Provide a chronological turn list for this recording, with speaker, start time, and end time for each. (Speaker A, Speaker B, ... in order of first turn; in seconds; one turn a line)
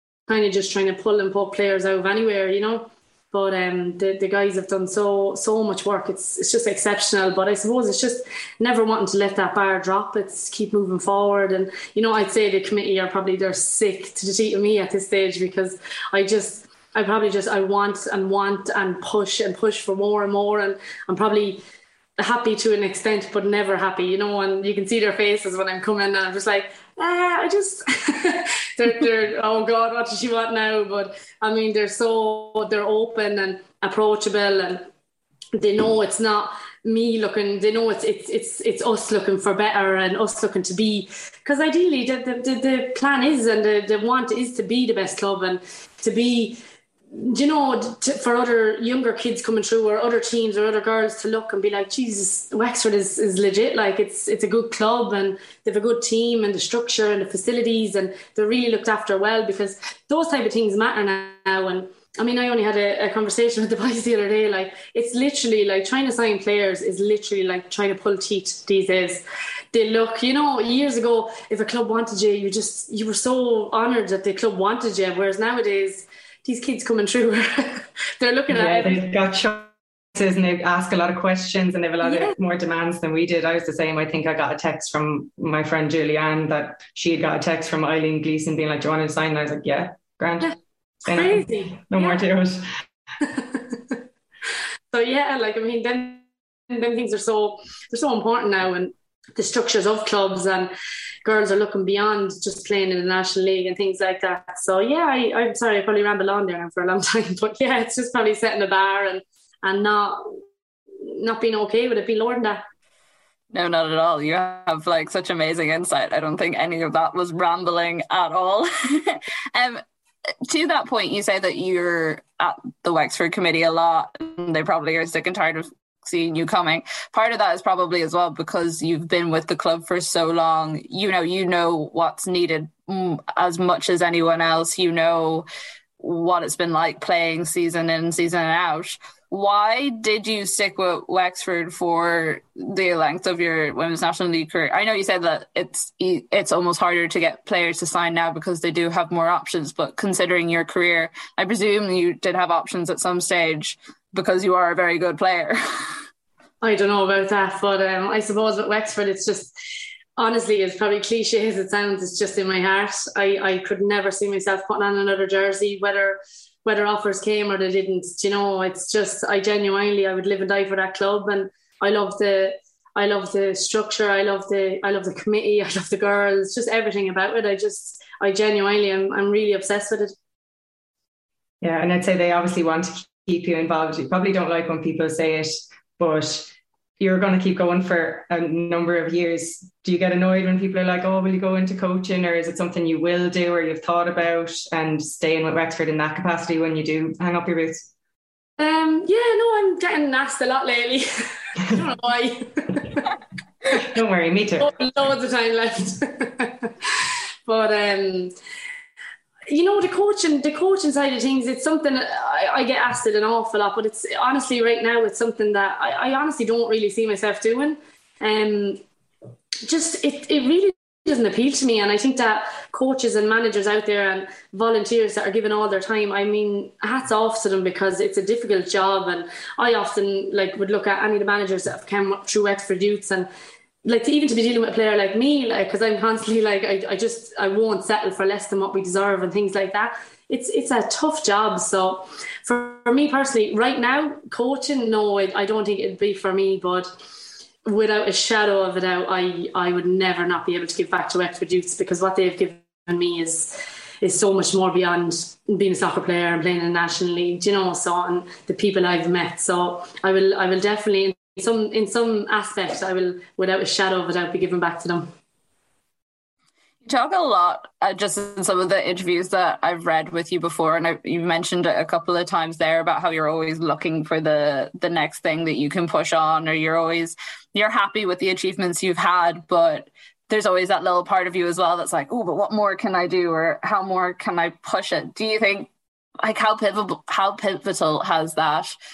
Speaker A: 0.3-21.6
Speaker A: 22.2-34.9
Speaker A: 35.5-46.6
Speaker A: 47.1-79.0
Speaker B: 78.5-90.5
Speaker A: 82.0-82.4
Speaker B: 91.0-92.7
Speaker A: 91.1-92.2
Speaker A: 93.2-94.0
Speaker A: 94.9-100.7
Speaker A: 101.2-110.4
Speaker A: 111.0-112.6
Speaker C: 113.5-119.8
Speaker C: 120.5-135.5
Speaker C: 136.0-155.6
Speaker A: 156.6-159.6
Speaker A: 160.2-180.1
Speaker B: 181.6-197.9
Speaker A: 198.6-203.0
Speaker B: 203.7-204.7
Speaker A: 204.6-206.7
Speaker A: 207.5-208.3
Speaker A: 209.5-218.8
Speaker A: 219.6-233.3
Speaker A: 233.8-246.9
Speaker A: 247.7-265.1
Speaker C: 266.8-285.7
Speaker C: 286.2-288.8